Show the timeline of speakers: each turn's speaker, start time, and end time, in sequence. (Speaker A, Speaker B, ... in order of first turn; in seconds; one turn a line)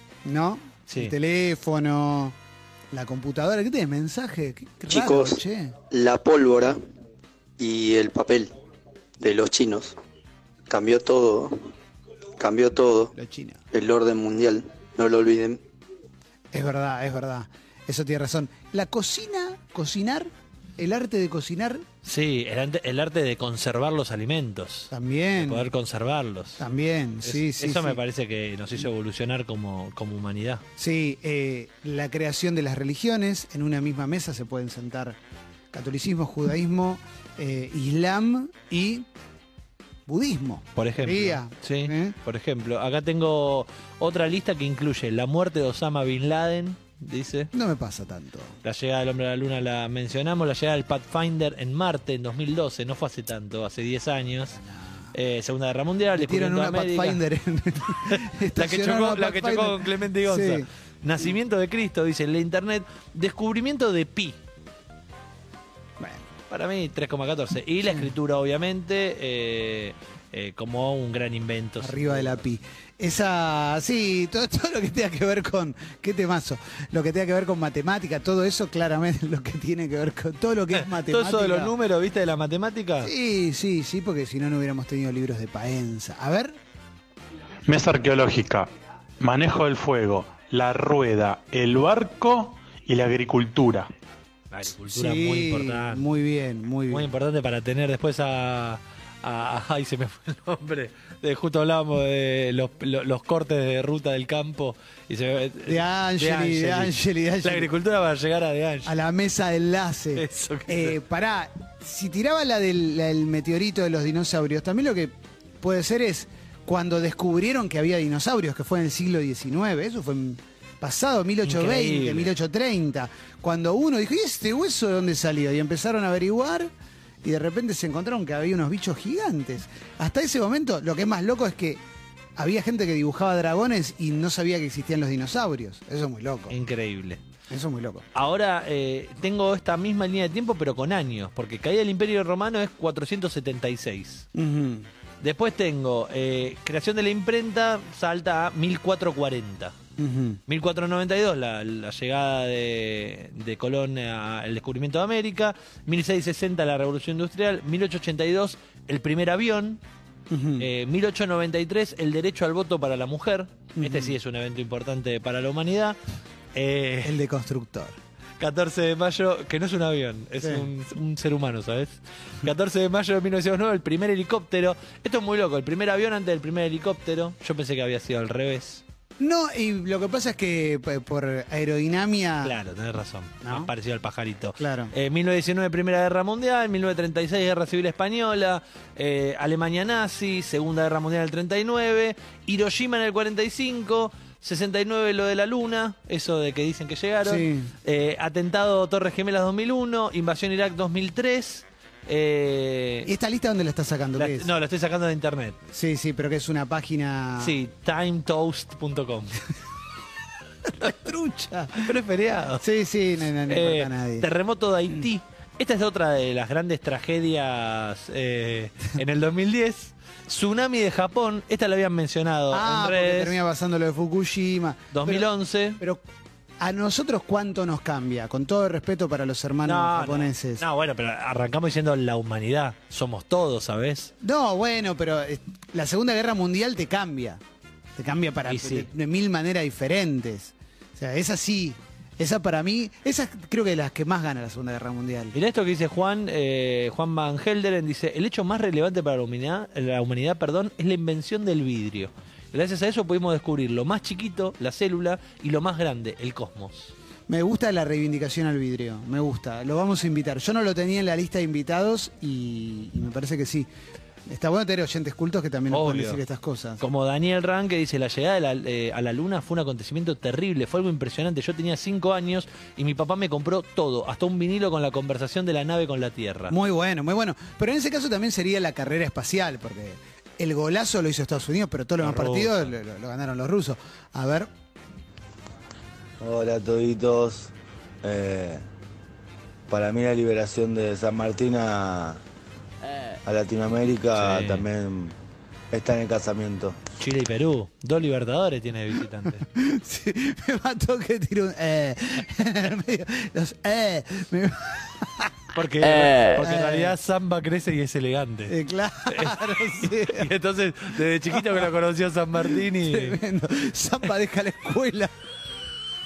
Speaker A: 0.2-2.4
Speaker B: 0.9-1.1
Speaker A: 2.9-5.8
Speaker C: 4.9-6.8
Speaker C: 7.6-8.5
Speaker C: 9.2-10.0
Speaker C: 10.7-11.7
Speaker C: 12.4-13.1
Speaker A: 13.2-13.6
Speaker C: 13.7-15.6
Speaker A: 16.5-21.8
Speaker B: 22.0-26.6
Speaker A: 24.9-25.7
Speaker A: 26.6-28.0
Speaker B: 27.2-30.6
Speaker A: 30.8-35.2
Speaker A: 35.7-39.1
Speaker A: 40.1-42.2
Speaker B: 40.8-47.5
Speaker A: 47.5-48.6
Speaker B: 48.6-54.6
Speaker B: 55.1-57.2
Speaker A: 56.1-60.7
Speaker B: 58.1-64.4
Speaker A: 66.0-66.3
Speaker B: 66.5-72.4
Speaker A: 71.8-81.7
Speaker B: 80.8-83.1
Speaker A: 83.0-86.6
Speaker D: 87.7-88.7
Speaker D: 89.2-93.9
Speaker B: 94.5-96.0
Speaker A: 94.9-97.1
Speaker B: 96.9-108.9
Speaker A: 105.7-107.7
Speaker A: 108.8-126.7
Speaker B: 110.2-111.0
Speaker B: 121.4-122.3
Speaker A: 127.2-131.8
Speaker A: 132.4-136.6
Speaker B: 136.5-137.2
Speaker A: 137.5-138.1
Speaker B: 138.1-144.3
Speaker A: 144.3-144.9
Speaker B: 145.2-149.8
Speaker A: 150.0-150.4
Speaker B: 150.5-159.8
Speaker A: 160.3-160.7
Speaker B: 160.6-166.0
Speaker A: 163.8-164.1
Speaker B: 166.5-167.2
Speaker A: 167.0-168.0
Speaker B: 168.4-178.8
Speaker A: 170.4-170.7
Speaker A: 179.2-182.6
Speaker B: 182.4-203.1
Speaker A: 183.4-183.7
Speaker A: 184.6-184.9
Speaker A: 197.2-197.7
Speaker A: 203.1-204.5
Speaker B: 204.2-205.6
Speaker A: 205.7-207.6
Speaker B: 207.4-209.4
Speaker A: 210.8-211.9
Speaker B: 211.8-212.7
Speaker A: 212.6-214.3
Speaker B: 213.5-223.4
Speaker A: 222.5-225.3
Speaker B: 224.9-225.8
Speaker A: 226.6-230.6
Speaker B: 229.7-234.1
Speaker A: 234.2-237.4
Speaker A: 238.0-245.3
Speaker B: 238.5-238.9
Speaker B: 245.3-256.9
Speaker A: 257.3-263.7
Speaker A: 264.3-266.8
Speaker B: 265.7-266.2
Speaker B: 266.8-276.6
Speaker A: 276.5-284.5
Speaker B: 282.0-282.7
Speaker E: 286.2-287.5
Speaker E: 288.0-288.6
Speaker E: 289.7-292.2
Speaker E: 293.2-295.1
Speaker B: 294.1-294.7
Speaker E: 295.7-296.8
Speaker B: 297.0-299.4
Speaker A: 299.4-305.3
Speaker B: 305.6-308.6
Speaker A: 306.4-307.0
Speaker A: 308.5-310.3
Speaker B: 309.1-313.2
Speaker A: 311.3-311.6
Speaker A: 312.4-315.1